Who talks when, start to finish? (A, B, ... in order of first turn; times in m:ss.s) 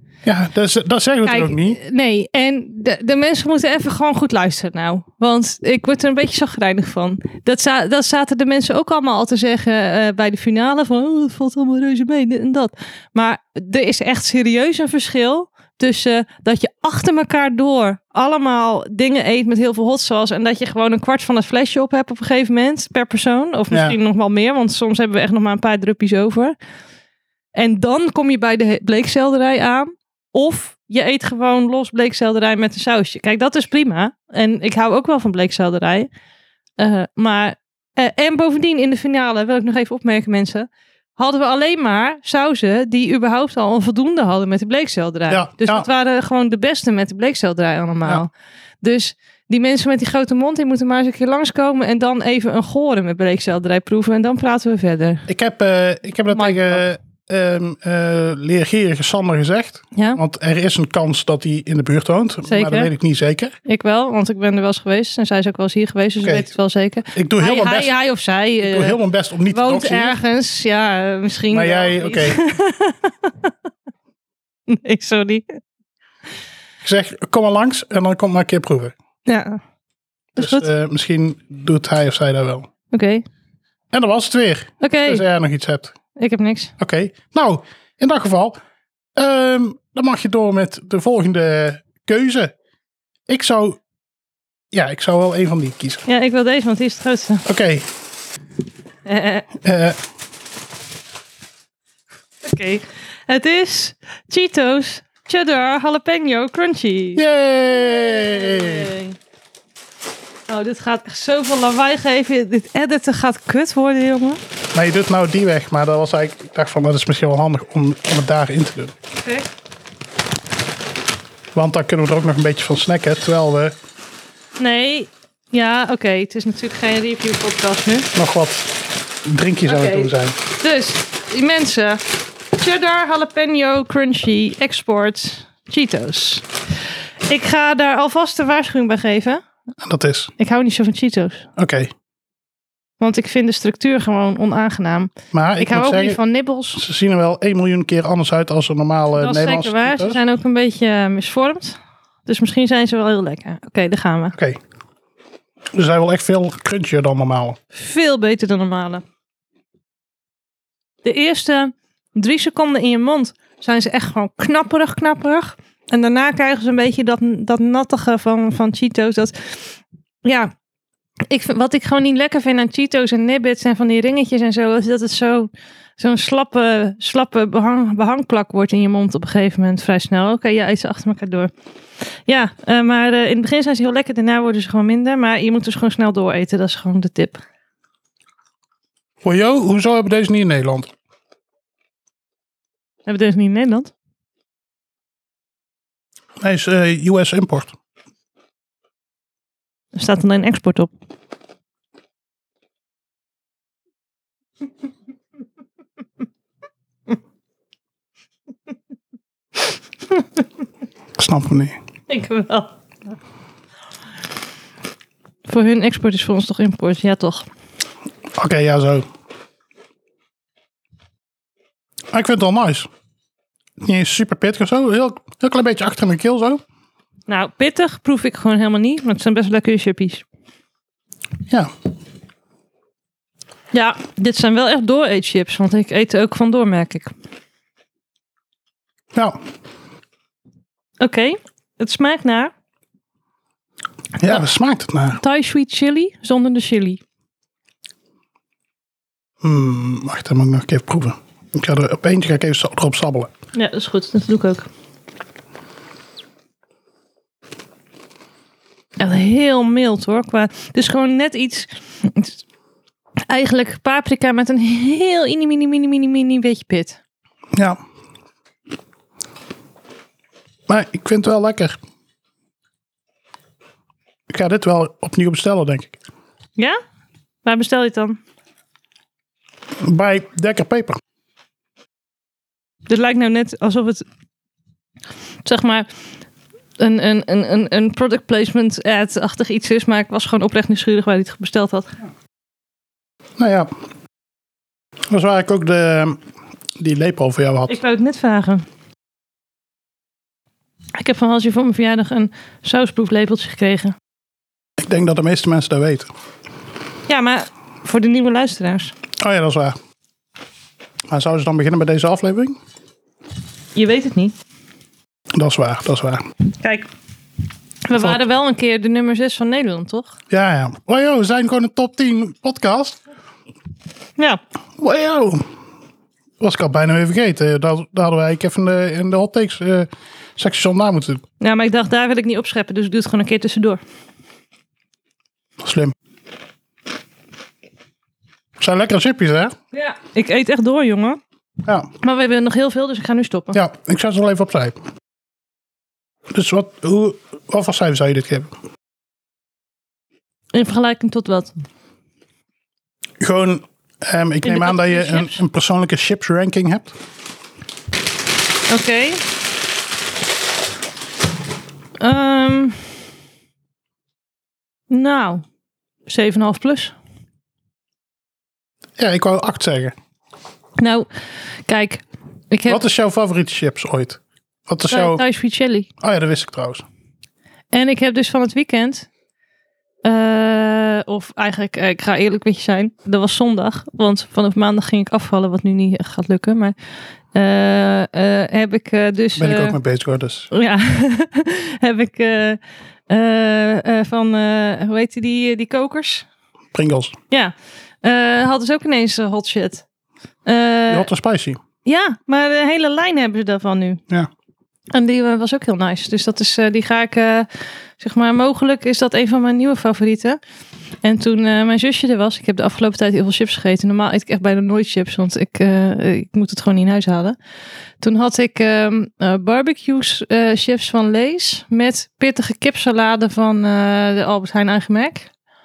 0:00.2-0:01.8 A
0:01.2-0:26.6 B
0:23.7-0:24.0 A
0:27.5-0:36.1 B
0:36.8-0:48.3 B
0:45.3-0:45.9 A
0:48.8-0:55.2 B
0:55.3-1:03.5 A
0:56.3-0:56.8 B
0:59.9-1:00.2 B
1:02.4-1:02.9 B
1:03.6-1:13.5 B
1:06.2-1:06.5 A
1:07.1-1:07.9 A
1:08.6-1:10.2 A
1:11.5-1:12.4 A
1:14.7-1:15.6 B
1:16.8-1:18.9 A
1:19.2-1:19.6 B
1:20.3-1:22.7 A
1:20.4-1:20.7 B
1:22.9-1:23.2 B
1:23.9-1:25.9 A
1:24.8-1:25.2 B
1:26.2-1:26.7 B
1:26.8-1:28.6 A
1:29.2-1:32.5 A
1:33.3-1:33.8 A
1:34.7-1:36.0 A
1:36.0-1:37.4 B
1:37.4-1:37.9 A
1:39.0-1:39.5 B
1:39.6-1:40.0 A
1:42.4-1:47.2 B
1:47.1-1:48.9 A
1:47.8-1:49.2 B
1:50.5-1:54.4 B
1:54.7-1:58.9 A
2:01.5-2:03.7 A
2:04.6-2:08.1 B
2:08.1-2:10.4 A
2:09.6-2:12.0 B
2:12.5-2:16.4 B
2:17.3-2:19.4 B
2:19.8-2:20.3 A
2:20.4-2:21.5 B
2:21.6-2:21.9 A
2:23.0-2:26.8 B
2:25.3-2:26.2 A
2:26.7-2:30.2 A
2:29.2-2:34.3 B
2:34.3-2:34.6 A
2:35.7-2:37.6 A
2:37.7-2:39.0 B
2:41.0-2:50.5 B
2:51.3-3:01.5 B
3:02.3-3:07.4 B
3:09.2-3:10.9 A
3:13.0-3:13.9 B
3:16.4-3:17.7 A
3:19.9-3:20.9 B
3:31.2-3:31.8 A
3:32.1-3:32.7 B
3:35.5-3:37.4 B
3:38.4-3:39.0 A
3:42.1-3:42.9 A
3:43.8-3:46.6 A
3:47.3-3:50.2 B
3:53.7-3:57.1 B
4:01.0-4:02.5 B
4:04.2-4:05.2 A
4:05.2-4:07.0 B
4:09.4-4:13.3 A
4:13.5-4:14.7 B
4:19.0-4:22.4 B
4:23.3-4:27.0 B
4:27.5-4:27.8 A
4:30.7-4:31.8 A
4:34.3-4:36.0 A
4:37.4-4:38.2 B
4:39.8-4:41.0 A
4:42.9-4:44.0 B
4:45.4-4:45.9 B
4:46.8-4:51.9 B
4:53.4-4:53.7 A
4:55.1-4:56.2 A
4:56.8-4:57.8 A
4:57.7-4:58.6 B
5:00.9-5:03.9 B
5:04.8-5:06.1 A
5:07.1-5:08.9 B
5:09.2-5:09.8 A
5:11.1-5:12.6 A
5:13.7-5:14.3 B
5:15.3-5:16.2 A
5:16.6-5:16.9 B
5:17.8-5:20.1 B
5:20.3-5:23.0 A
5:24.8-5:25.4 A
5:26.4-5:31.2 A
5:31.4-5:33.8 B
5:35.6-5:35.9 A
5:38.6-5:39.5 A
5:39.7-5:41.2 B
5:42.0-5:43.6 B
5:43.5-5:44.8 A
5:46.3-5:48.5 A
5:50.5-5:51.5 B
5:53.2-5:56.9 A
5:54.4-5:55.4 B
5:58.7-5:59.2 B
6:02.0-6:02.8 B
6:04.9-6:05.4 B
6:06.1-6:06.9 B
6:09.0-6:09.9 A
6:10.8-6:11.1 B
6:11.7-6:12.8 B
6:12.7-6:15.2 A
6:14.9-6:15.9 B
6:16.0-6:16.8 A
6:17.7-6:19.1 B
6:20.0-6:26.7 B
6:27.3-6:29.8 B
6:29.4-6:30.5 A
6:30.5-6:36.2 B
6:36.7-6:37.2 A
6:37.3-6:39.8 B
6:40.4-6:41.1 B
6:40.9-6:41.6 A
6:41.8-6:44.0 B
6:44.9-6:50.4 B
6:51.0-6:57.4 B
6:58.0-7:05.3 B